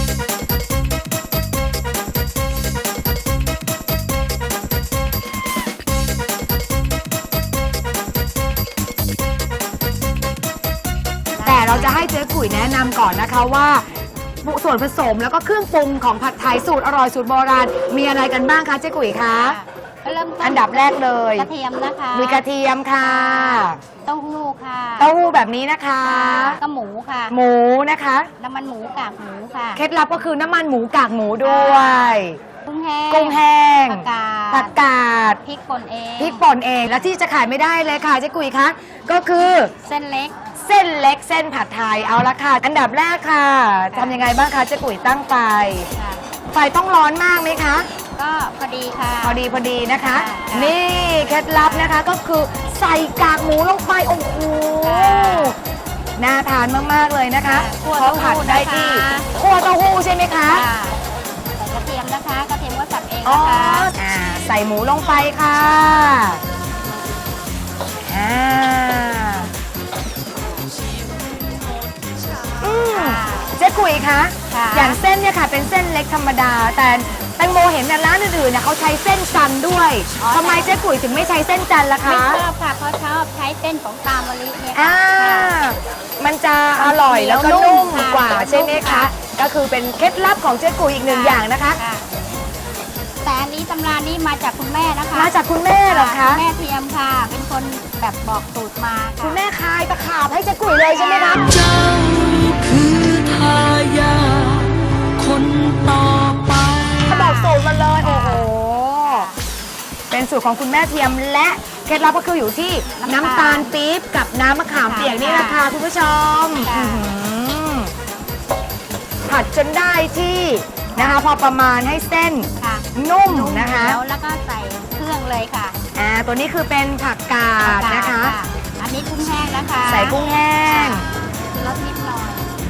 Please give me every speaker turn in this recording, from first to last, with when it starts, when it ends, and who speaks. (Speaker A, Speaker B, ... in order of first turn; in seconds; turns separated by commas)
Speaker A: 11.4-12.0, Speaker B: 11.4-13.9, Speaker B: 14.4-19.6, Speaker A: 19.2-22.4, Speaker B: 20.4-21.5, Speaker B: 22.1-23.8, Speaker A: 23.0-25.1, Speaker B: 25.0-26.6, Speaker A: 26.0-27.4, Speaker B: 27.3-28.3, Speaker A: 28.4-29.8, Speaker B: 29.8-32.4, Speaker A: 31.4-34.8, Speaker B: 33.1-35.4, Speaker A: 35.4-36.4, Speaker B: 36.2-39.7, Speaker A: 39.8-40.3, Speaker B: 40.6-45.9, Speaker A: 43.9-44.2, Speaker A: 46.0-46.2, Speaker B: 46.5-47.9, Speaker A: 48.2-50.8, Speaker B: 49.2-55.6, Speaker A: 51.6-52.0, Speaker A: 54.8-55.5, Speaker B: 56.2-60.7, Speaker A: 57.5-59.3, Speaker A: 60.5-61.0, Speaker A: 61.6-63.9, Speaker B: 63.2-66.4, Speaker B: 68.1-69.5, Speaker B: 72.6-82.4, Speaker A: 72.9-73.6, Speaker A: 74.5-75.0, Speaker A: 80.2-80.8, Speaker A: 82.0-85.6, Speaker B: 84.7-91.8, Speaker A: 86.8-89.1, Speaker A: 91.1-92.1, Speaker A: 93.2-99.4, Speaker B: 95.1-96.4, Speaker B: 99.2-101.6, Speaker A: 101.0-101.5, Speaker C: 101.5-107.2, Speaker B: 107.0-109.3, Speaker A: 107.2-108.5, Speaker A: 109.0-109.3, Speaker B: 110.1-117.9, Speaker A: 113.0-113.7, Speaker A: 114.8-115.7, Speaker A: 116.6-117.1, Speaker B: 119.3-124.0, Speaker A: 121.0-121.2, Speaker A: 122.6-125.8, Speaker B: 126.0-128.4, Speaker A: 127.6-132.5, Speaker B: 129.9-131.1